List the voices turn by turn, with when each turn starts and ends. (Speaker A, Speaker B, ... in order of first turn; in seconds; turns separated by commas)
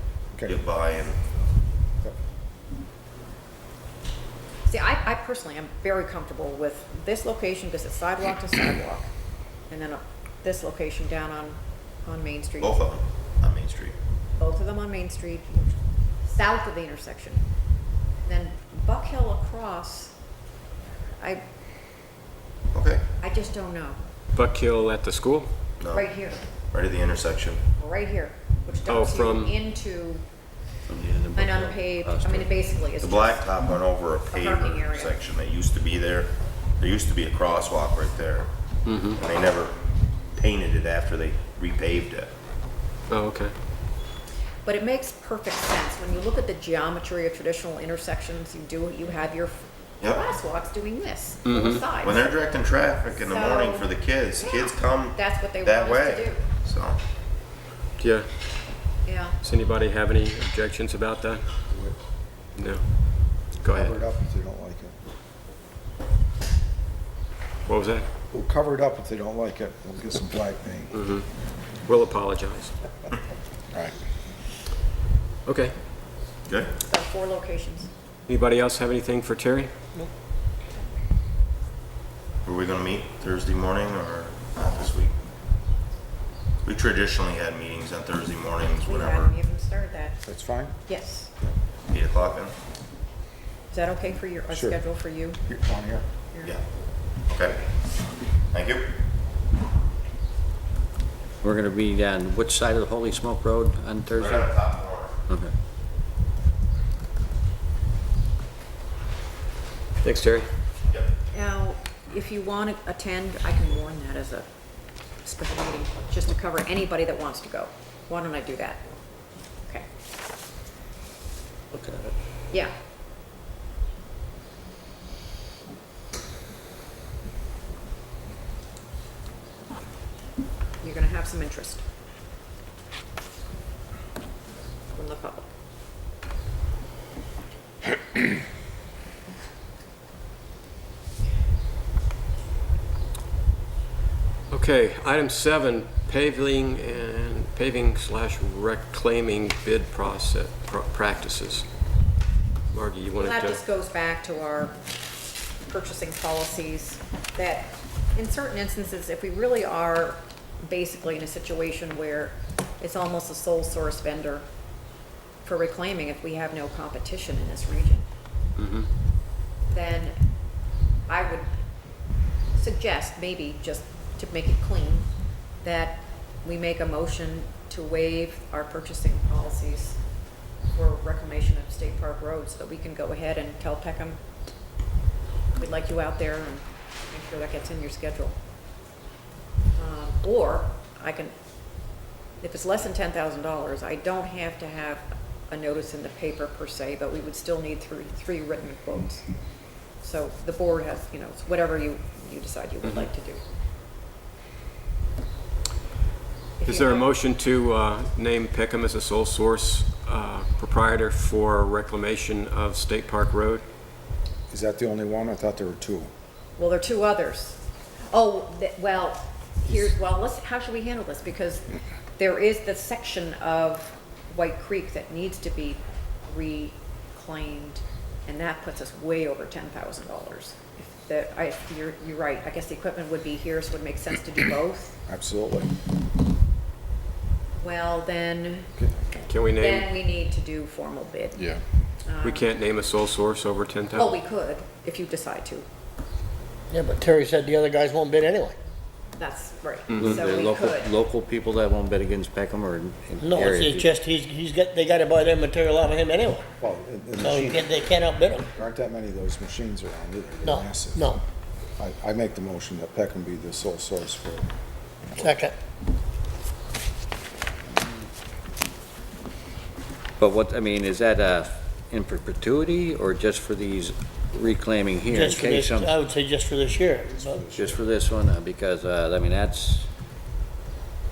Speaker A: 0.3-0.6, Speaker B: 0.5-1.2, Speaker C: 4.7-9.1, Speaker C: 9.7-12.8, Speaker B: 12.6-13.9, Speaker C: 14.4-15.7, Speaker C: 16.2-17.4, Speaker C: 18.2-20.1, Speaker B: 22.7-23.0, Speaker C: 23.2-24.0, Speaker D: 24.4-25.5, Speaker B: 25.8-27.6, Speaker C: 25.9-26.5, Speaker C: 27.8-30.2, Speaker D: 28.9-29.6, Speaker E: 30.9-32.5, Speaker C: 31.4-35.2, Speaker B: 33.0-38.5, Speaker D: 38.9-39.2, Speaker B: 39.1-39.8, Speaker B: 40.4-42.3, Speaker D: 43.1-43.5, Speaker C: 44.7-56.5, Speaker B: 50.0-50.3, Speaker D: 51.5-51.9, Speaker B: 51.9-57.0, Speaker D: 58.0-58.3, Speaker C: 59.0-59.4, Speaker D: 59.4-61.4, Speaker A: 61.7-62.0, Speaker D: 62.6-62.8, Speaker D: 63.6-63.9, Speaker A: 63.7-65.0, Speaker D: 67.7-68.1, Speaker A: 68.3-71.0, Speaker D: 70.9-71.3, Speaker D: 71.9-72.7, Speaker D: 75.5-75.8, Speaker B: 76.5-76.7, Speaker C: 76.8-77.9, Speaker D: 78.3-79.7, Speaker B: 82.5-85.1, Speaker B: 86.7-89.3, Speaker C: 88.7-90.2, Speaker A: 90.2-90.8, Speaker C: 90.9-91.3, Speaker B: 91.9-92.5, Speaker C: 93.7-95.4, Speaker A: 94.5-94.8, Speaker A: 95.4-96.1, Speaker C: 96.3-96.6, Speaker B: 97.3-97.6, Speaker B: 98.5-98.9, Speaker E: 101.4-104.5, Speaker B: 104.2-105.1, Speaker E: 105.3-105.5, Speaker D: 110.0-110.5, Speaker C: 111.3-114.5, Speaker C: 115.2-118.9, Speaker E: 121.7-122.1, Speaker C: 130.8-131.8, Speaker C: 134.9-135.5, Speaker D: 144.5-151.7, Speaker D: 152.7-153.6, Speaker C: 153.2-154.8, Speaker C: 155.7-164.5, Speaker C: 165.4-168.1, Speaker D: 168.6-168.9, Speaker C: 169.7-170.1, Speaker C: 171.1-171.5, Speaker C: 172.6-175.1, Speaker C: 175.6-180.0, Speaker C: 180.7-184.2, Speaker C: 185.6-188.4, Speaker C: 189.8-191.3, Speaker C: 192.4-199.2, Speaker C: 200.0-203.4, Speaker C: 206.6-207.1, Speaker D: 206.7-213.7, Speaker A: 214.5-216.1, Speaker C: 216.6-217.6, Speaker C: 218.1-221.7, Speaker C: 222.2-235.0, Speaker A: 235.1-235.7, Speaker C: 237.6-238.7, Speaker A: 238.8-239.3, Speaker D: 239.3-239.9, Speaker C: 239.5-242.5, Speaker D: 242.2-244.2, Speaker C: 243.9-245.7, Speaker F: 246.7-248.6, Speaker C: 249.2-250.9, Speaker D: 249.9-250.2, Speaker E: 250.0-253.9, Speaker F: 253.2-256.4, Speaker A: 256.6-261.2, Speaker F: 257.2-258.5, Speaker F: 260.4-261.2, Speaker A: 261.8-264.5, Speaker A: 265.1-265.4, Speaker F: 265.2-265.6, Speaker E: 270.2-275.9, Speaker F: 275.1-277.5, Speaker A: 277.1-277.8, Speaker E: 277.5-279.9